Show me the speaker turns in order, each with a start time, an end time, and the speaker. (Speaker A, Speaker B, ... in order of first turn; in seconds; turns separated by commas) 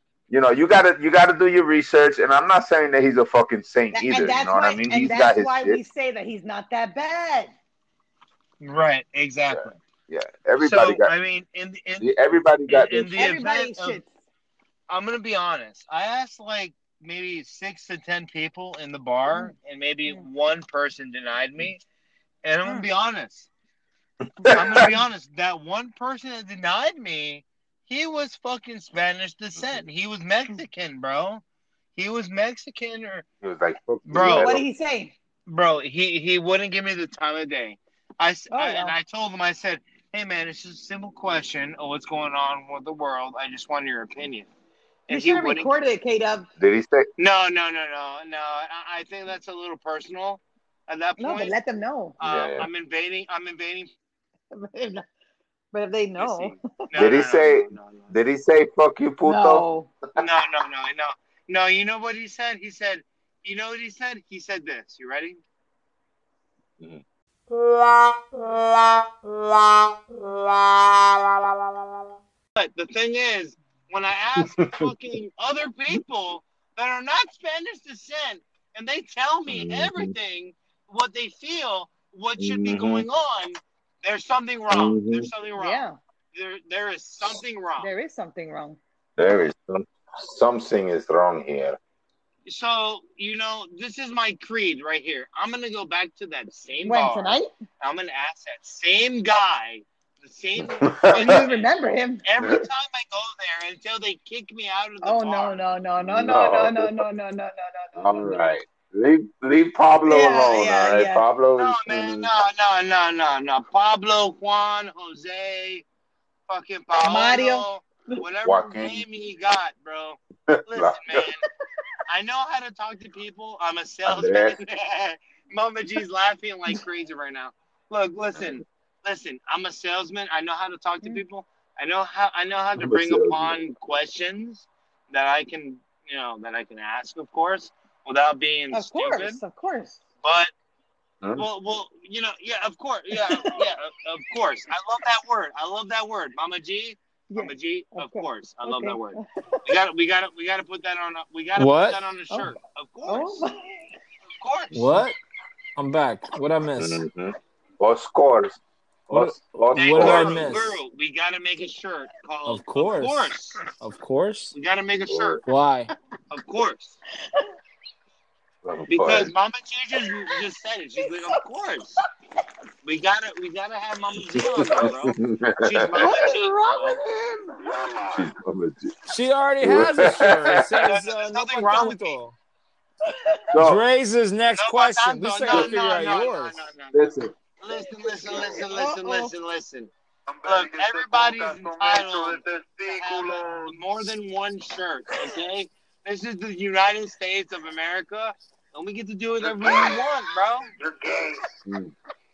Speaker A: 0.3-5.8, Speaker B: 3.9-7.5, Speaker C: 8.6-9.8, Speaker A: 9.5-11.1, Speaker C: 10.6-12.1, Speaker A: 12.0-13.2, Speaker C: 12.7-14.0, Speaker B: 13.1-14.1, Speaker C: 14.9-21.8, Speaker B: 19.3-19.5, Speaker C: 22.4-23.5, Speaker A: 24.4-24.9, Speaker C: 24.5-31.4, Speaker A: 29.6-29.8, Speaker C: 31.9-33.2, Speaker A: 33.4-34.6, Speaker C: 34.0-34.5, Speaker B: 34.2-35.1, Speaker C: 35.5-44.5, Speaker B: 38.5-38.9, Speaker C: 45.1-45.7, Speaker B: 45.1-46.5, Speaker A: 46.6-47.1, Speaker C: 47.2-51.5, Speaker B: 51.2-52.1, Speaker C: 52.2-53.9, Speaker A: 52.2-52.7, Speaker B: 54.5-55.0, Speaker B: 55.7-56.9, Speaker C: 56.2-58.2, Speaker A: 56.9-59.6, Speaker B: 59.2-59.9, Speaker C: 60.1-65.4, Speaker C: 72.5-87.9, Speaker A: 74.4-74.9, Speaker A: 79.5-80.1, Speaker A: 82.4-83.0, Speaker A: 84.7-85.3, Speaker B: 85.6-86.0, Speaker B: 87.8-88.8, Speaker A: 89.2-91.8, Speaker C: 92.5-101.7, Speaker B: 96.8-97.5, Speaker A: 100.6-101.4, Speaker B: 101.1-102.2, Speaker C: 102.2-105.6, Speaker B: 105.0-108.5, Speaker A: 106.0-107.0, Speaker A: 108.0-112.3, Speaker B: 110.0-111.2, Speaker C: 111.5-115.8, Speaker C: 116.5-121.4, Speaker B: 116.9-118.2, Speaker A: 118.4-119.0, Speaker A: 120.5-121.2, Speaker C: 122.1-139.4, Speaker A: 124.0-124.6, Speaker A: 132.8-133.6, Speaker B: 138.7-140.0, Speaker C: 140.2-140.5, Speaker A: 141.2-141.5, Speaker C: 141.3-153.5, Speaker B: 143.2-143.7, Speaker B: 147.3-149.7, Speaker D: 151.6-152.0, Speaker B: 153.1-153.9, Speaker C: 154.4-154.9, Speaker D: 154.7-155.2, Speaker D: 155.8-157.0, Speaker A: 156.8-160.6, Speaker D: 159.1-160.7, Speaker C: 159.7-163.6, Speaker D: 162.4-164.5, Speaker C: 164.5-165.4, Speaker A: 165.1-165.4, Speaker D: 165.4-165.9, Speaker C: 166.3-167.0, Speaker A: 168.6-169.3, Speaker C: 168.9-172.0, Speaker B: 171.0-171.4, Speaker C: 172.8-177.0, Speaker A: 174.3-176.1, Speaker B: 176.0-178.2, Speaker A: 178.1-178.9, Speaker D: 179.1-182.3, Speaker A: 179.6-180.7, Speaker C: 180.8-182.2, Speaker B: 183.1-183.5, Speaker A: 183.5-183.8, Speaker D: 183.6-186.7, Speaker C: 184.6-189.9, Speaker A: 186.9-187.3, Speaker B: 188.4-189.3, Speaker A: 190.4-193.7, Speaker C: 190.4-200.7, Speaker A: 199.4-200.0, Speaker A: 201.0-201.9